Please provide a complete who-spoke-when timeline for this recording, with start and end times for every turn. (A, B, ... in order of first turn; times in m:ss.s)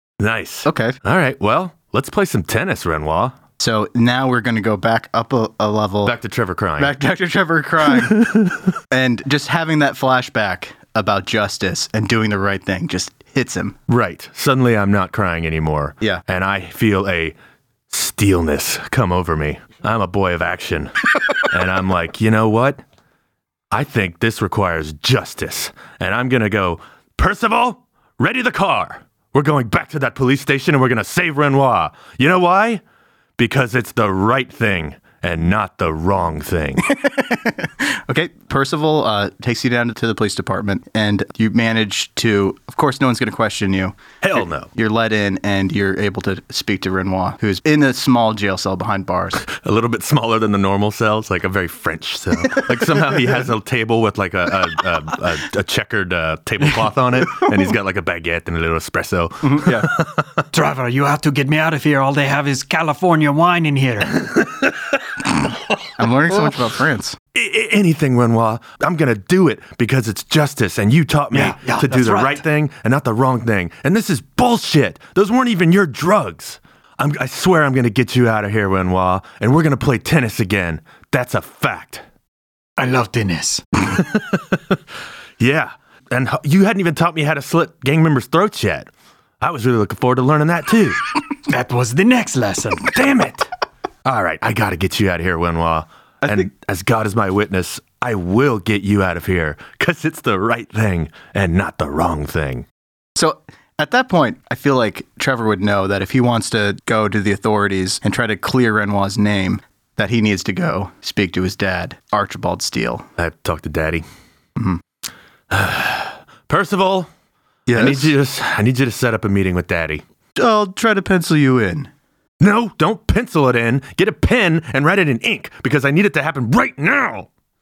0:00.2-0:03.4 A
0:00.6-0:01.0 B
0:03.6-0:06.2 B
0:06.0-0:06.9 A
0:06.8-0:08.2 B
0:08.0-0:08.6 A
0:08.9-0:13.8 B
0:13.9-0:17.4 A
0:17.9-0:22.8 A
0:23.7-0:32.8 A
0:33.4-0:36.9 A
0:36.8-0:49.4 B
0:44.2-0:44.7 A
0:49.4-1:00.5 A
0:59.4-0:59.9 B
1:00.5-1:04.2 C
1:04.2-1:04.8 A
1:06.0-1:07.2 B
1:07.3-1:22.0 A
1:11.3-1:12.4 C
1:22.8-1:23.7 C
1:23.8-1:24.8 A
1:25.4-1:31.0 A
1:31.4-1:32.9 C
1:32.8-1:33.5 A
1:34.0-1:42.6 A
1:43.2-1:53.0 B
1:53.2-1:54.0 A
1:54.6-1:54.8 B
1:55.5-1:57.1 A
1:57.7-1:58.1 B
1:57.7-2:00.0 A
2:00.4-2:01.9 B
2:02.4-2:07.3 A